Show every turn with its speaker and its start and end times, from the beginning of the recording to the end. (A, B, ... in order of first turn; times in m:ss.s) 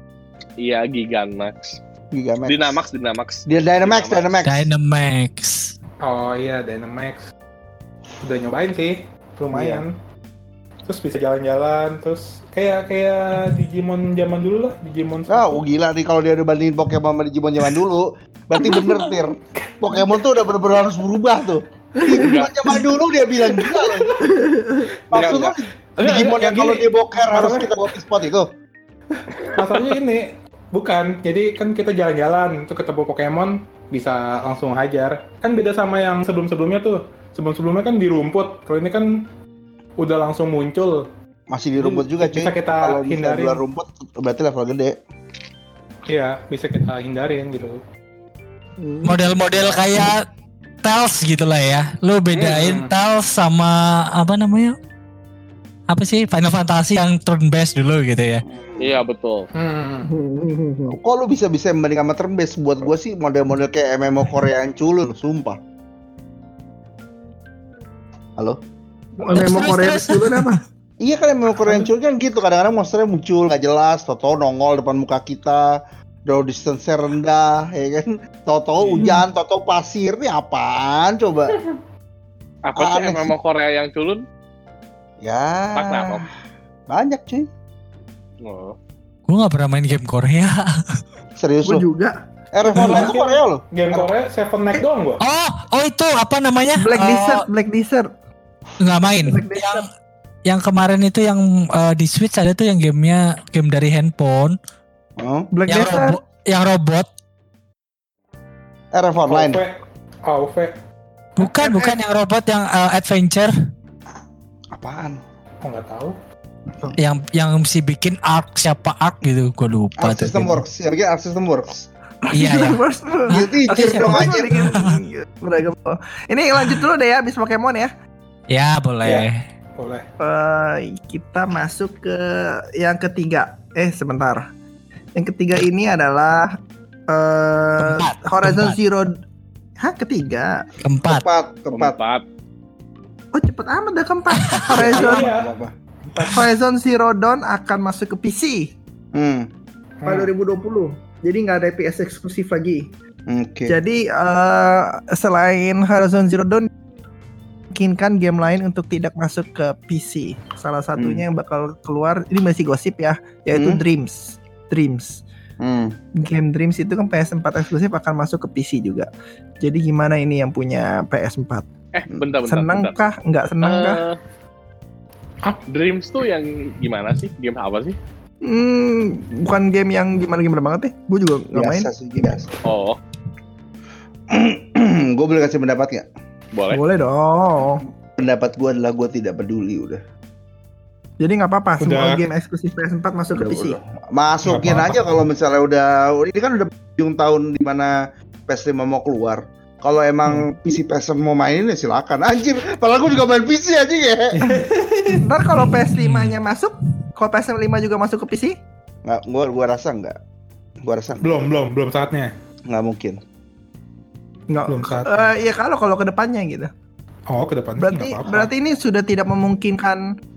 0:00.6-0:01.8 A
0:02.1-0:02.8 B
0:02.5-0:04.2 A
0:03.5-0:04.7 B
0:04.4-0:05.7 C
0:06.0-0:07.3 D
0:08.2-0:09.9 D
0:09.5-0:09.8 B
0:10.8-0:15.6 D
0:15.3-0:24.2 B
0:18.6-0:19.0 D
0:19.6-0:20.1 D
0:22.0-0:22.8 E
0:22.1-0:22.5 A
0:23.6-0:24.9 E
0:25.1-0:28.5 B
0:25.1-0:25.4 D
0:25.1-0:25.5 A
0:26.0-0:27.8 D
0:29.1-0:39.1 D
0:40.0-0:41.1 D
0:41.5-0:45.0 B
0:41.8-0:43.6 D
0:46.1-0:47.8 D
0:48.8-0:49.2 E
0:49.0-0:50.2 C
0:50.8-0:54.7 C
0:52.4-0:52.9 D
0:55.9-0:58.4 C
0:58.4-0:59.0 B
0:58.8-0:59.5 A
0:59.5-1:00.1 D
1:00.1-1:01.0 E
1:00.9-1:05.6 B
1:09.2-1:10.6 E
1:09.3-1:10.5 C
1:11.0-1:21.6 B
1:18.8-1:19.1 D
1:22.7-1:24.2 A
1:22.8-1:23.3 B
1:25.2-1:26.2 B
1:25.8-1:26.2 A
1:26.9-1:27.5 B
1:28.4-1:28.7 A
1:29.3-1:30.6 C
1:31.4-1:31.8 B
1:31.6-1:32.2 E
1:32.5-1:33.6 B
1:32.6-1:35.2 D
1:32.8-1:33.1 E
1:35.2-1:37.4 C
1:36.8-1:38.1 E
1:38.8-1:39.8 C
1:39.2-1:39.8 E
1:40.5-1:44.6 C
1:45.2-1:45.5 B
1:45.5-1:46.2 E
1:45.7-1:47.1 C
1:48.9-1:49.6 B
1:49.3-1:50.7 D
1:51.4-1:53.5 C
1:51.4-1:52.0 E
1:54.7-1:55.2 B
1:55.6-1:56.2 D
1:57.0-2:00.6 C
2:00.0-2:01.9 B
2:02.2-2:07.9 E
2:02.3-2:04.9 C
2:03.3-2:04.7 B
2:08.5-2:09.4 C
2:09.0-2:10.0 D
2:10.2-2:14.5 E
2:15.1-2:16.5 E
2:17.1-2:19.2 E
2:17.8-2:18.8 C
2:19.8-2:20.6 E
2:20.8-2:21.2 C
2:21.0-2:22.0 B
2:21.7-2:22.2 A
2:23.3-2:25.3 E
2:24.4-2:24.8 C
2:24.7-2:25.7 B
2:24.9-2:25.5 D
2:26.1-2:26.4 D
2:26.2-2:28.7 E
2:29.1-2:29.5 B
2:30.0-2:30.3 D
2:30.0-2:32.9 E
2:33.3-2:33.8 B
2:33.7-2:36.7 E
2:37.7-2:45.2 E
2:41.0-2:41.2 B
2:43.5-2:43.8 B
2:45.6-2:46.0 B
2:46.2-2:49.1 E
2:49.6-2:51.6 E
2:51.9-2:53.1 A
2:52.4-2:54.0 E
2:53.6-2:54.2 A
2:55.6-2:58.0 A
2:58.4-3:01.9 E
3:01.5-3:02.5 B
3:02.6-3:03.0 A
3:04.3-3:06.1 B
3:06.5-3:06.8 A
3:06.7-3:07.8 E
3:08.2-3:10.0 B
3:11.2-3:13.8 E
3:11.8-3:12.2 D
3:13.3-3:17.9 B
3:14.4-3:15.0 D
3:18.5-3:24.4 B
3:24.3-3:25.8 D
3:25.1-3:28.5 E
3:26.0-3:26.4 C
3:29.0-3:30.2 B
3:30.8-3:31.5 B
3:31.2-3:32.3 D
3:32.7-3:33.2 B
3:34.5-3:36.7 E
3:34.7-3:35.2 D
3:37.3-3:38.5 D
3:37.8-3:40.0 E